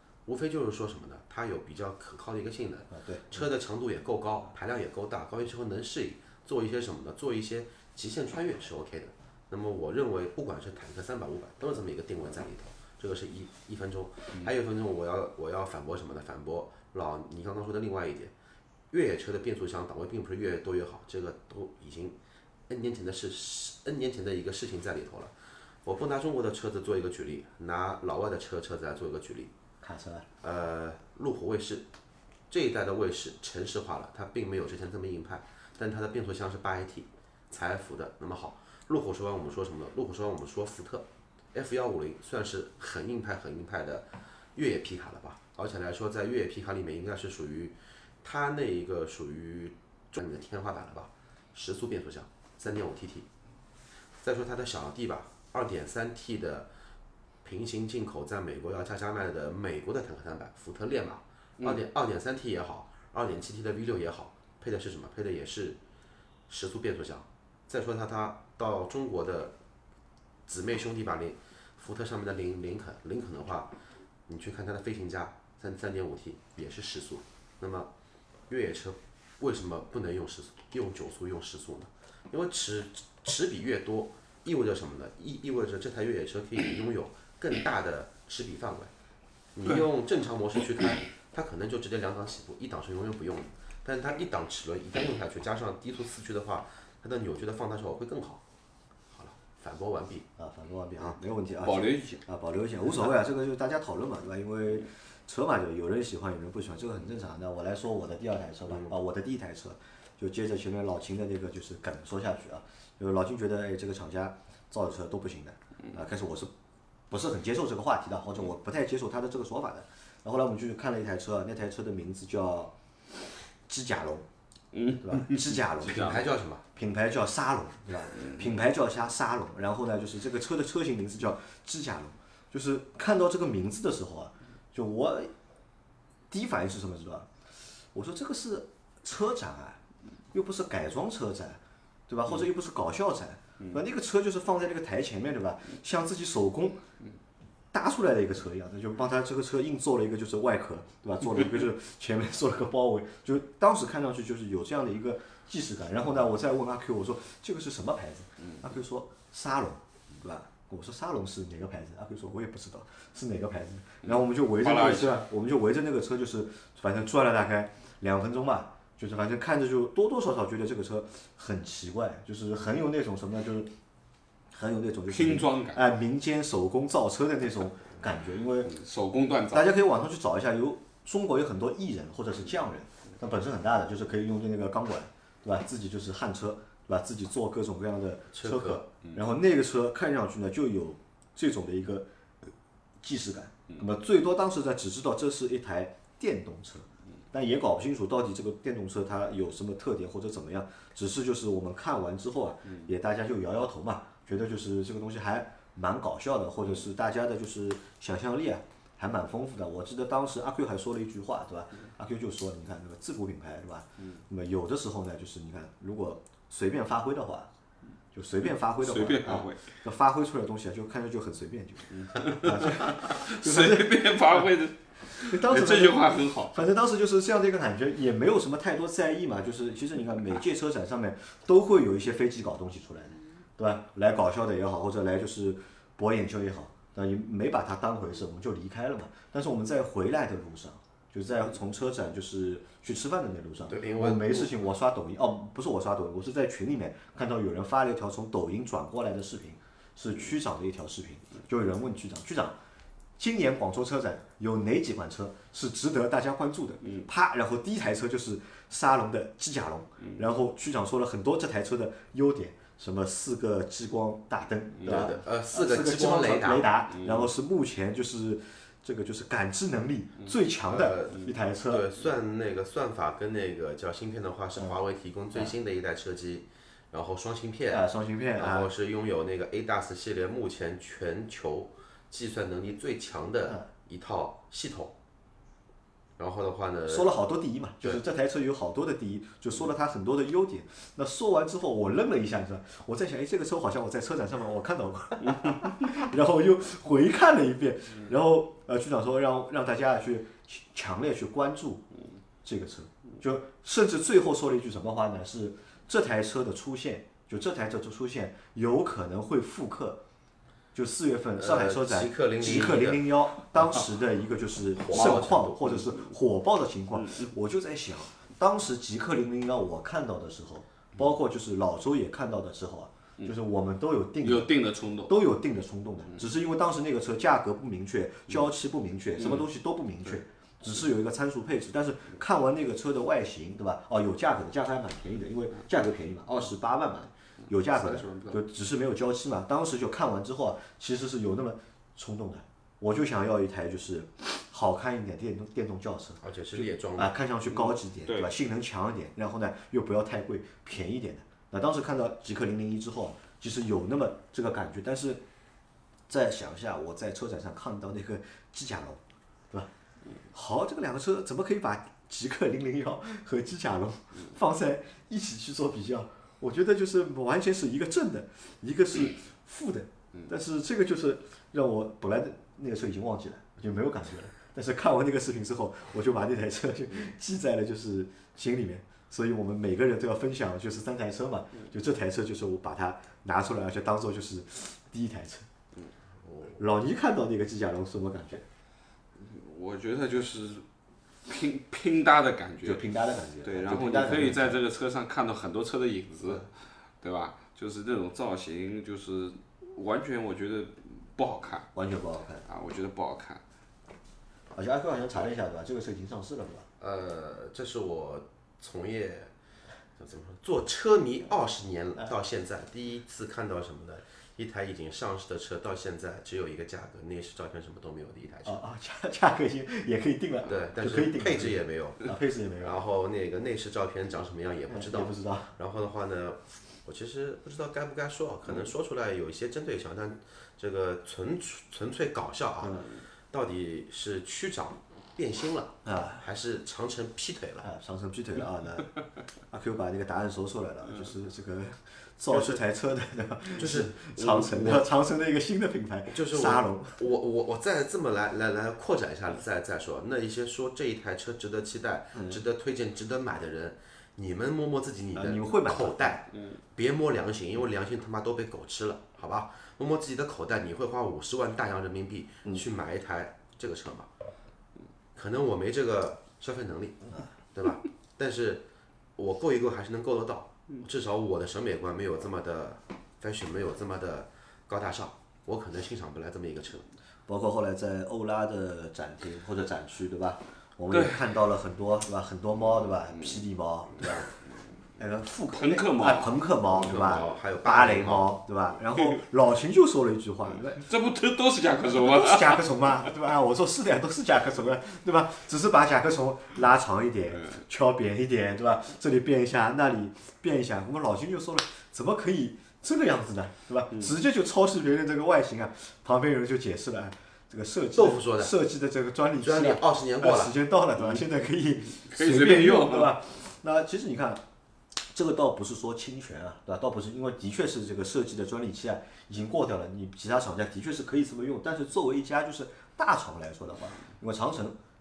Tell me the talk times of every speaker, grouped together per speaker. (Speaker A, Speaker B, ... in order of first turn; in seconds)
Speaker A: 0.3-18.3, 18.9-22.1, 22.7-25.3, 25.8-29.5, 30.4-31.9, 32.5-53.3, 54.1-56.7, 57.4-65.8, 66.5-69.5, 70.5-73.7, 74.3-77.9, 78.5-88.9, 89.6-98.4, 99.1-100.3, 125.8-126.6, 188.3-188.8, 243.7-244.5, 264.8-266.7, 270.7-284.9, 286.2-287.1, 311.4-313.1, 314.8-315.7, 346.2-347.1, 406.8-409.3, 410.0-418.6, 420.5-437.7, 442.3-442.6, 443.6-444.8, 446.1-464.1, 465.1-468.6, 469.1-476.9, 486.8-488.3, 508.0-508.5, 509.4-510.6
Speaker B: 2.9-3.4, 29.8-30.3, 100.4-116.5, 117.1-122.7, 123.7-124.3, 125.0-126.2, 126.8-135.3, 136.3-137.3, 137.9-139.8, 140.3-146.8, 147.7-173.7, 174.5-178.7, 179.5-192.1, 193.0-217.5, 218.1-224.5, 225.1-252.6, 253.2-271.9, 277.7-278.7, 286.9-301.9, 302.4-310.0, 310.7-346.2, 347.0-355.2, 356.1-359.0, 360.3-385.5, 386.6-388.4, 392.6-394.6, 401.7-402.5, 404.5-406.6, 418.4-422.8, 424.7-425.5, 432.6-432.9, 435.9-436.2, 437.6-439.0, 439.5-447.0, 452.1-452.4, 455.1-456.2, 477.3-484.3, 485.0-490.9, 491.9-514.4, 515.0-524.8
Speaker C: 61.6-61.8, 101.6-102.2, 124.7-126.3, 164.1-165.2, 175.1-175.8, 178.6-179.7, 218.8-219.7, 222.0-226.7, 266.9-267.3, 314.9-315.8, 317.0-317.3, 324.2-325.1, 329.2-329.5, 337.8-338.4, 347.5-348.3, 389.2-390.6, 391.2-392.9, 393.4-401.7, 402.5-403.4, 480.9-481.3, 483.1-483.4, 485.5-486.4, 490.8-492.6, 512.0-513.1